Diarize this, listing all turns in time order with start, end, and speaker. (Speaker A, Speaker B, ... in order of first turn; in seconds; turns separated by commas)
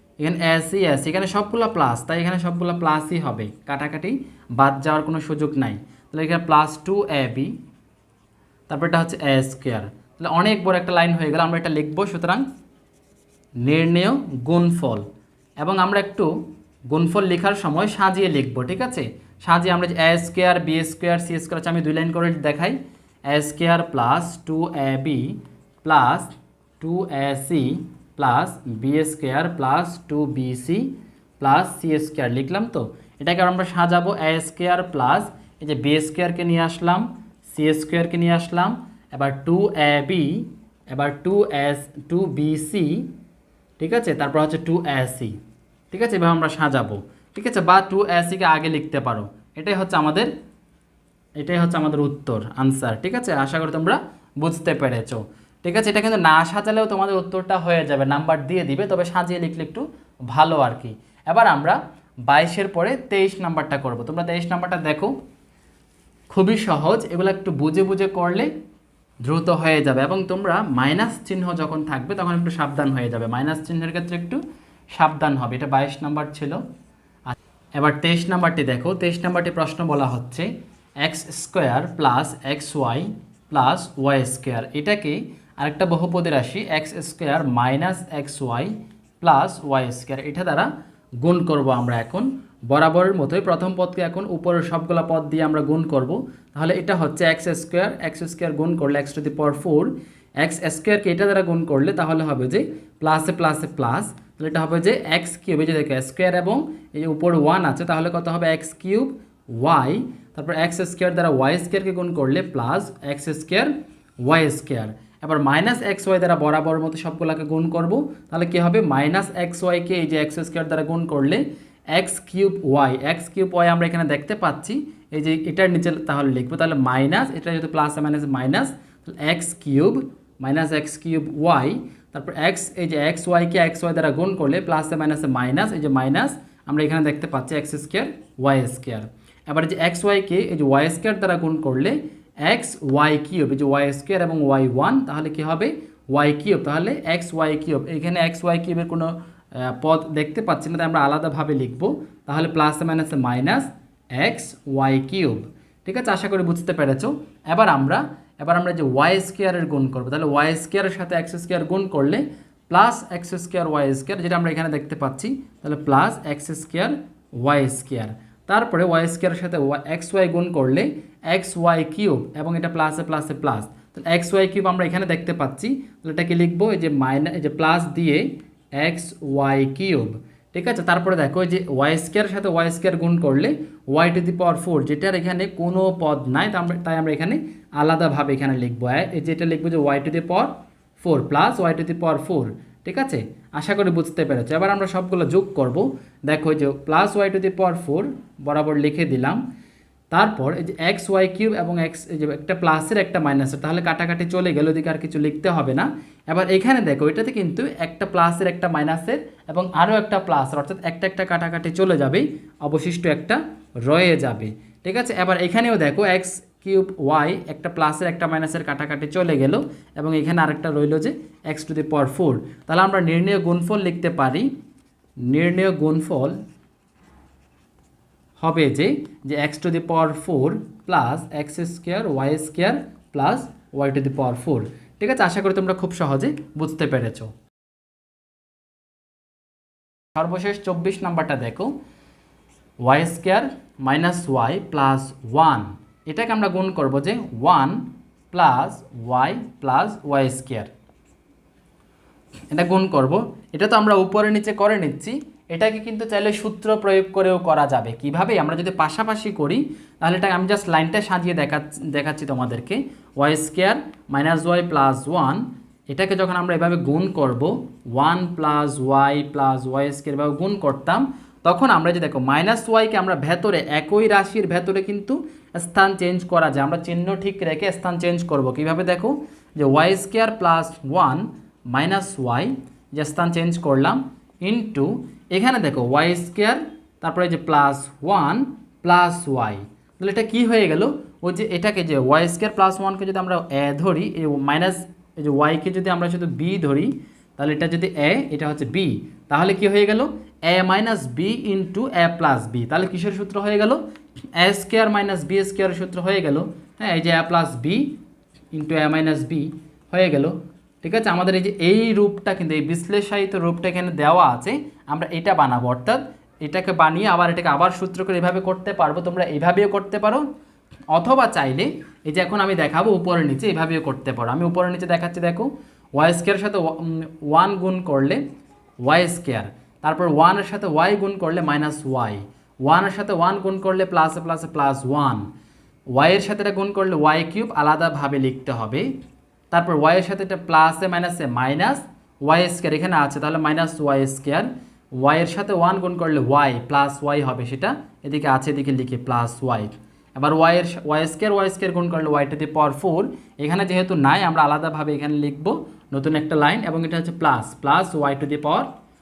Speaker A: 0.2-7.5, Speaker A: 8.7-12.4, Speaker A: 13.6-15.1, Speaker A: 15.6-16.3, Speaker A: 16.9-22.8, Speaker A: 23.3-43.1, Speaker A: 43.8-45.4, Speaker A: 45.9-50.3, Speaker A: 51.4-65.1, Speaker A: 66.3-68.5, Speaker A: 69.2-74.4, Speaker A: 74.9-76.6, Speaker A: 77.3-80.5, Speaker A: 81.0-90.7, Speaker A: 91.2-113.7, Speaker A: 114.2-199.4, Speaker A: 200.1-224.5, Speaker A: 225.3-226.3, Speaker A: 228.4-237.3, Speaker A: 240.2-241.7, Speaker A: 242.8-250.7, Speaker A: 252.5-303.8, Speaker A: 304.4-307.9, Speaker A: 308.5-320.2, Speaker A: 320.9-328.2, Speaker A: 328.8-335.2, Speaker A: 335.9-338.9, Speaker A: 339.5-358.7